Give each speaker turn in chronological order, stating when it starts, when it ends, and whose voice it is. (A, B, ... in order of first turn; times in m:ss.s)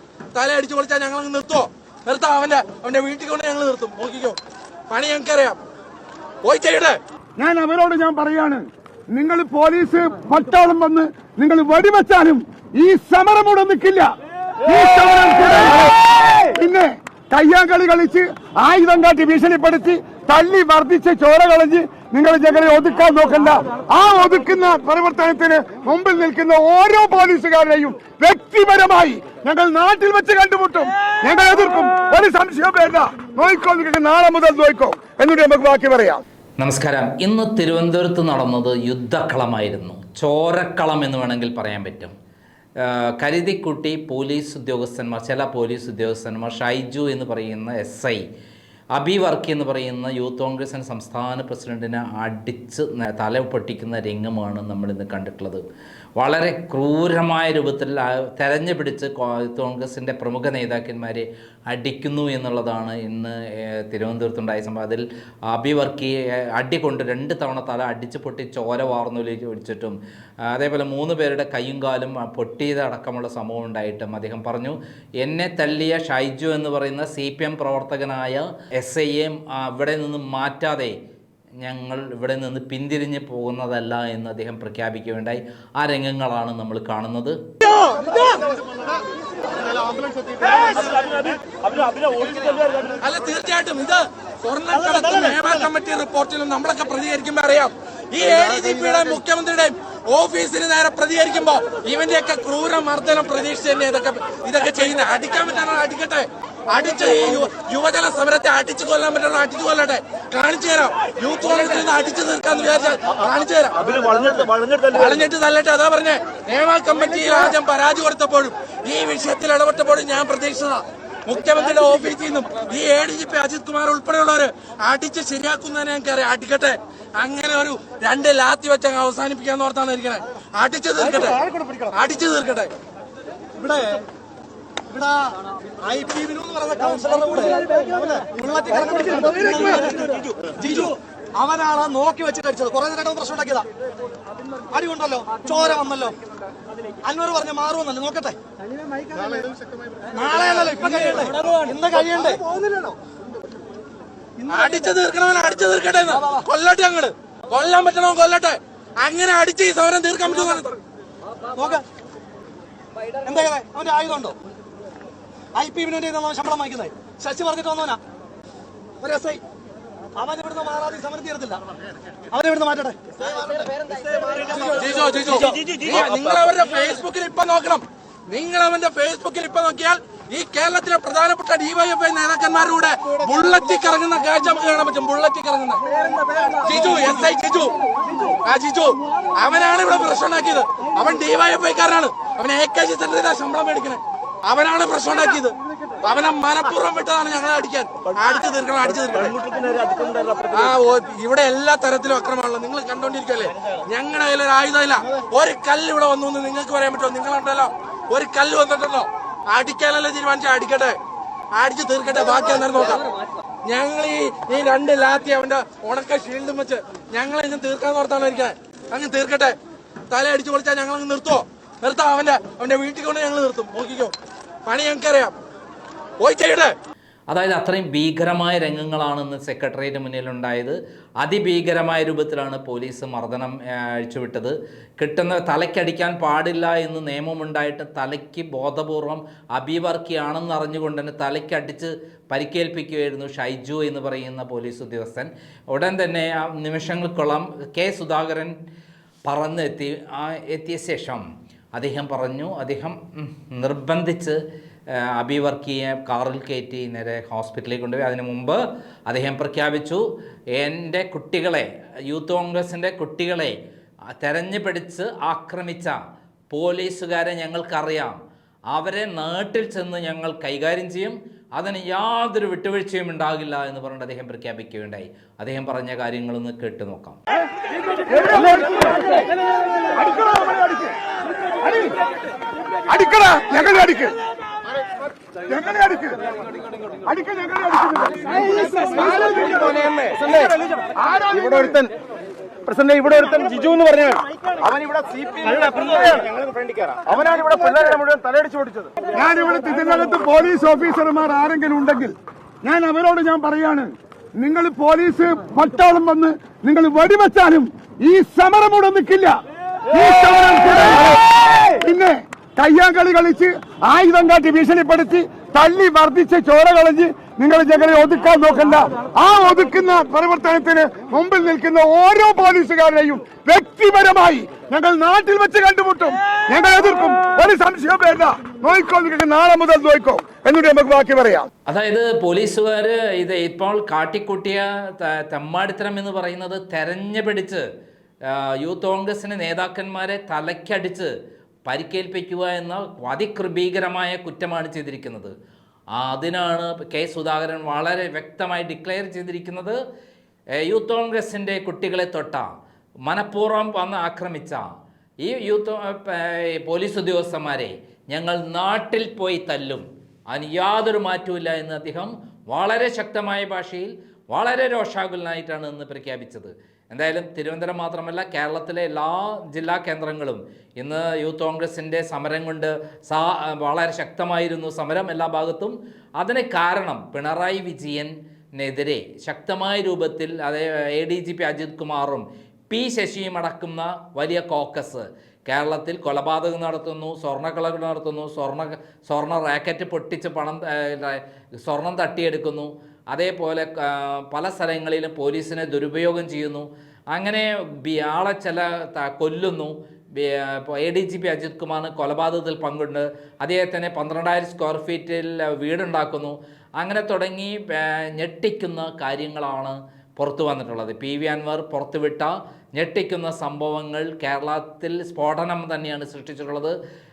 0:00.3-0:04.4 A
0:04.9-0:05.6 A
0:06.4-0:07.0 A
0:07.4-0:36.2 B
0:36.6-0:42.1 C
0:42.8-0:48.2 C
0:49.0-0:55.6 C
0:56.2-1:21.0 C
1:21.6-1:27.4 C
1:27.9-1:28.4 A
1:30.5-1:30.9 A
1:31.9-1:32.8 D
1:33.0-2:12.7 A
1:54.1-1:54.8 D
2:13.6-2:14.0 E
2:14.9-2:23.7 E
2:24.7-2:26.2 E
2:27.0-2:28.4 E
2:29.2-2:29.4 E
2:30.1-2:33.0 E
2:34.5-2:40.8 A
2:36.1-2:36.5 E
2:41.5-2:41.8 E
2:43.2-2:44.4 E
2:45.5-2:48.0 E
2:49.0-2:49.4 E
2:50.2-2:51.6 E
2:52.3-2:54.6 E
2:54.6-3:05.8 A
2:55.3-2:55.7 E
3:06.5-3:07.8 A
3:08.4-3:19.5 A
3:19.6-3:20.5 D
3:20.5-3:31.0 A
3:31.5-3:33.1 A
3:33.6-3:39.6 A
3:40.1-3:44.1 A
3:44.7-3:45.4 A
3:46.2-3:46.7 A
3:47.3-4:08.6 C
4:09.3-4:14.4 C
4:14.9-4:20.0 C
4:20.6-4:23.6 C
4:24.2-4:26.0 C
4:26.5-4:28.2 C
4:28.7-4:37.2 C
4:38.2-4:39.0 B
4:39.9-4:40.9 B
4:41.6-4:41.9 B
4:42.9-4:44.2 B
4:45.5-4:46.2 B
4:47.0-4:49.6 B
4:49.6-4:50.5 D
4:51.0-4:51.9 B
4:52.7-4:58.9 D
4:59.1-5:09.4 B
5:09.9-5:31.5 B
5:31.7-5:37.6 C
5:38.3-5:41.1 C
5:41.7-5:45.3 C
5:45.9-5:49.8 C
5:50.6-5:52.5 C
5:53.0-5:54.7 C
5:55.2-6:56.8 C